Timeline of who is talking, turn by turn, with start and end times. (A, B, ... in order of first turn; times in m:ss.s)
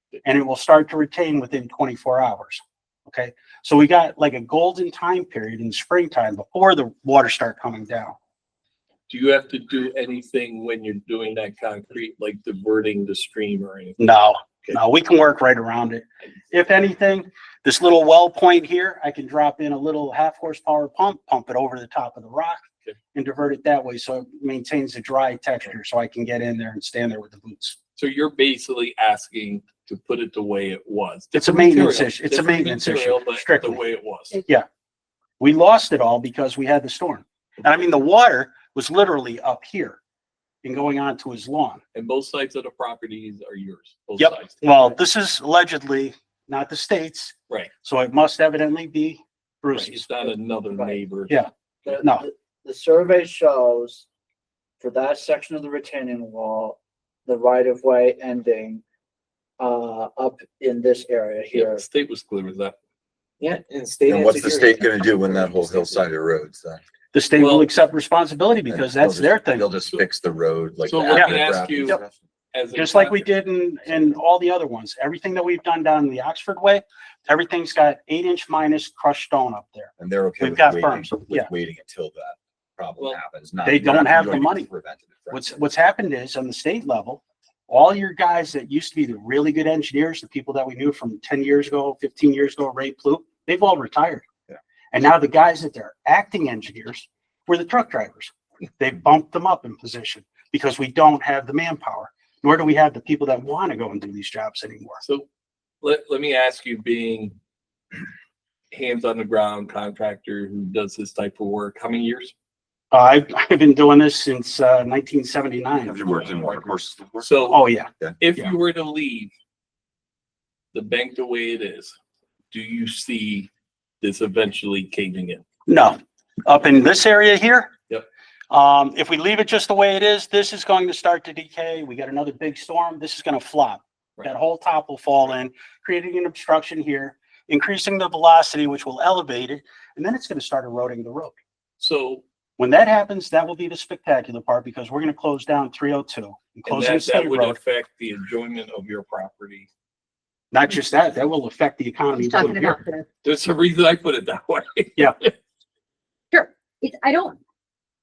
0:00.2-0:08.2 A
0:09.1-0:14.0 B
0:14.0-0:22.6 A
0:23.1-0:27.8 A
0:28.0-0:34.4 B
0:31.3-0:33.8 A
0:35.4-0:40.0 A
0:40.6-0:41.8 A
0:41.9-0:44.9 B
0:44.2-0:50.1 A
0:49.7-0:51.3 B
0:50.7-0:51.0 C
0:51.8-0:54.1 C
0:54.8-0:58.8 C
0:59.6-1:01.8 C
1:01.5-1:02.8 B
1:03.4-1:05.8 D
1:04.1-1:06.8 E
1:04.2-1:06.0 C
1:07.1-1:09.7 A
1:07.4-1:07.7 B
1:08.7-1:12.2 E
1:10.9-1:12.0 B
1:12.5-1:13.2 B
1:12.7-1:21.5 A
1:20.0-1:25.5 E
1:23.6-1:24.7 A
1:25.3-1:34.2 A
1:34.9-1:45.0 A
1:45.8-1:47.4 B
1:48.7-1:52.3 B
1:52.9-1:56.1 A
1:55.9-1:57.3 E
1:57.2-1:57.6 B
1:57.5-1:58.4 A
1:58.2-1:59.3 B
2:00.7-2:02.0 B
2:02.5-2:03.5 B
2:04.0-2:05.4 B
2:05.7-2:07.7 A
2:08.5-2:21.4 A
2:21.8-2:22.2 B
2:22.6-2:27.6 A
2:26.7-2:29.7 B
2:30.5-2:32.8 A
2:32.2-2:33.1 F
2:33.2-2:35.3 B
2:36.3-2:37.4 F